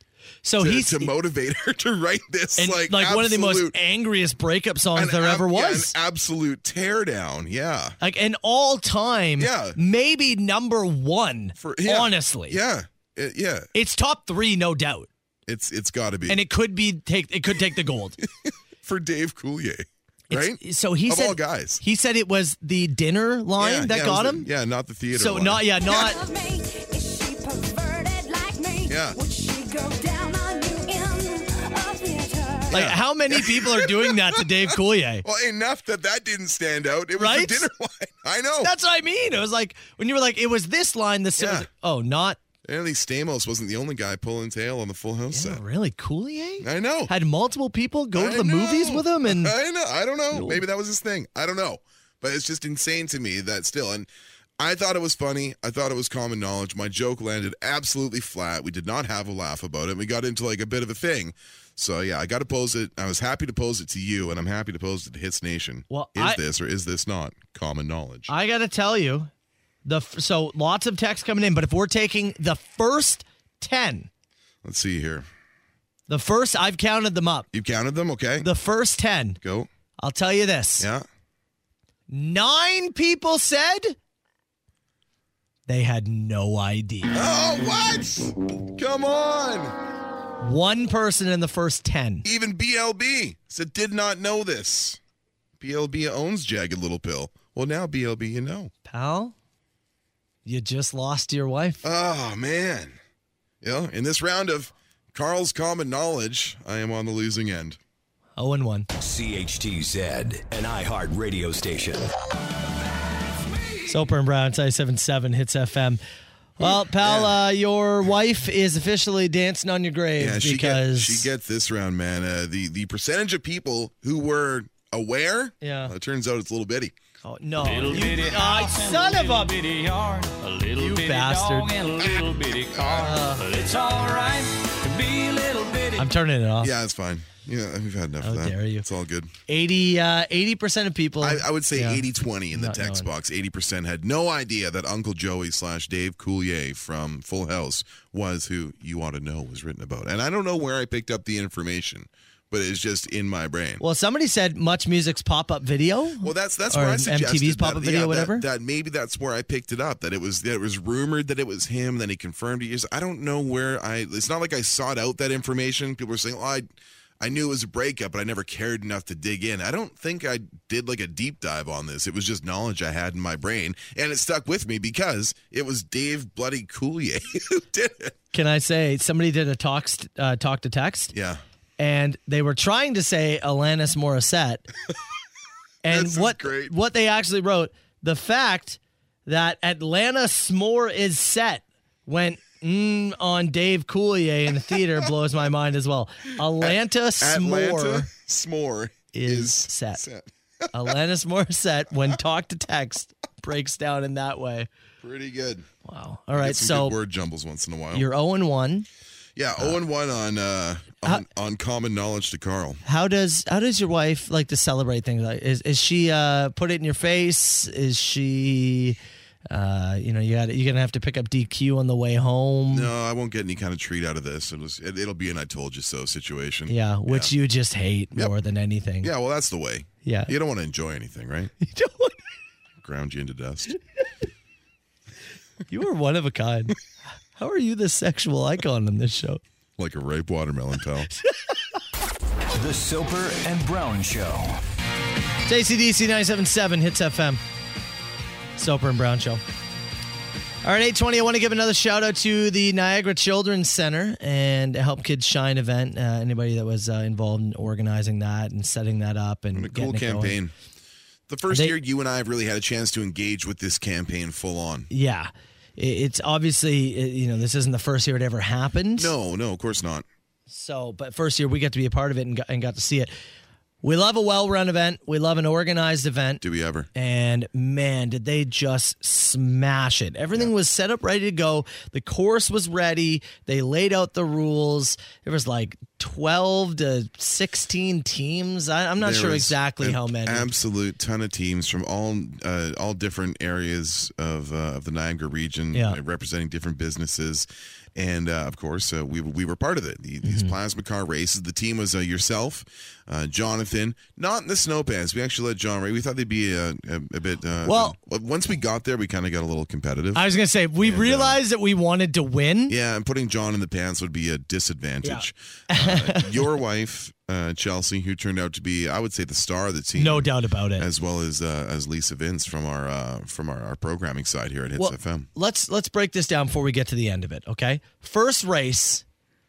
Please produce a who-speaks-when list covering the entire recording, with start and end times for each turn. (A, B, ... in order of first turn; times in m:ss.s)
0:00.4-0:01.1 A
0:00.6-0:03.8 B
0:02.6-0:05.9 A
0:05.0-0:08.0 B
0:08.0-0:12.6 A
0:09.4-0:09.8 B
0:11.6-0:13.7 B
0:13.7-0:15.1 A
0:15.5-0:16.4 B
0:16.3-0:18.2 A
0:18.4-0:21.8 B
0:20.3-0:24.5 A
0:23.6-0:25.8 B
0:25.1-0:26.2 A
0:25.8-0:32.8 C
0:28.9-0:29.2 B
0:32.7-0:35.2 A
0:32.7-0:34.4 B
0:35.2-0:38.7 B
0:37.2-0:37.7 A
0:38.6-0:42.4 A
0:41.4-0:41.7 B
0:42.6-0:45.6 B
0:45.3-0:49.5 A
0:46.6-0:47.1 B
0:48.2-0:54.1 B
0:50.3-0:50.6 A
0:54.6-1:08.3 B
1:05.9-1:06.4 A
1:08.3-1:09.3 A
1:09.8-1:14.1 A
1:14.6-1:15.3 B
1:16.1-1:17.5 A
1:17.5-1:18.5 B
1:18.4-1:19.4 A
1:19.4-1:19.7 B
1:20.0-1:20.9 A
1:20.8-1:21.0 B
1:22.1-1:24.0 A
1:25.7-1:27.1 A
1:27.1-1:29.8 B
1:30.4-1:32.2 A
1:32.2-1:35.0 B
1:35.6-1:38.7 B
1:38.9-1:39.3 A
1:40.4-1:41.8 A
1:41.8-1:43.0 B
1:43.6-1:47.8 B
1:48.4-1:48.9 A
1:49.0-1:52.1 D
1:53.9-1:56.0 A
1:56.6-2:01.3 A
1:56.6-1:57.4 B
2:00.2-2:07.0 B
2:05.6-2:05.9 A
2:07.2-2:09.5 A
2:07.6-2:16.1 E
2:10.8-2:11.7 A
2:13.0-2:13.4 A
2:16.0-2:16.7 A
2:16.6-2:19.3 B
2:18.2-2:18.9 A
2:19.5-2:23.1 A
2:21.2-2:33.8 B
2:33.8-2:38.4 A
2:36.2-2:58.1 B
2:58.3-3:01.1 A
3:01.1-3:01.4 B
3:01.8-3:04.7 A
3:05.8-3:18.1 A
3:05.9-3:06.7 B
3:16.6-3:20.7 B
3:19.1-3:20.0 A
3:20.7-3:24.7 A
3:25.0-3:25.7 B
3:25.8-3:27.0 A
3:26.4-3:28.1 B
3:27.9-3:28.9 A
3:29.4-3:32.8 B
3:32.8-3:39.0 A
3:39.5-3:42.9 A
3:42.7-3:47.3 B
3:46.7-3:49.1 A
3:49.0-3:51.5 B
3:50.0-3:50.3 A
3:51.6-3:52.2 A
3:52.8-3:53.8 B
3:55.7-3:56.8 A
3:57.4-3:59.4 A
3:59.8-4:01.1 B
4:02.6-4:04.6 D
4:05.5-4:07.4 A
4:08.6-4:09.4 A
4:10.6-4:20.4 A
4:19.5-4:20.5 B
4:21.3-4:24.9 B
4:21.5-4:21.8 A
4:24.9-4:29.1 A
4:29.0-4:30.1 B
4:30.5-4:33.1 A
4:33.8-4:36.4 A
4:36.4-4:36.9 B
4:37.0-4:50.5 A
4:49.0-5:11.4 B
4:55.7-4:56.0 A
5:00.2-5:00.6 A
5:07.6-5:08.0 A
5:10.2-5:12.7 A
5:12.7-5:25.3 B
5:15.0-5:16.5 A
5:20.0-5:20.9 A
5:24.8-5:29.0 A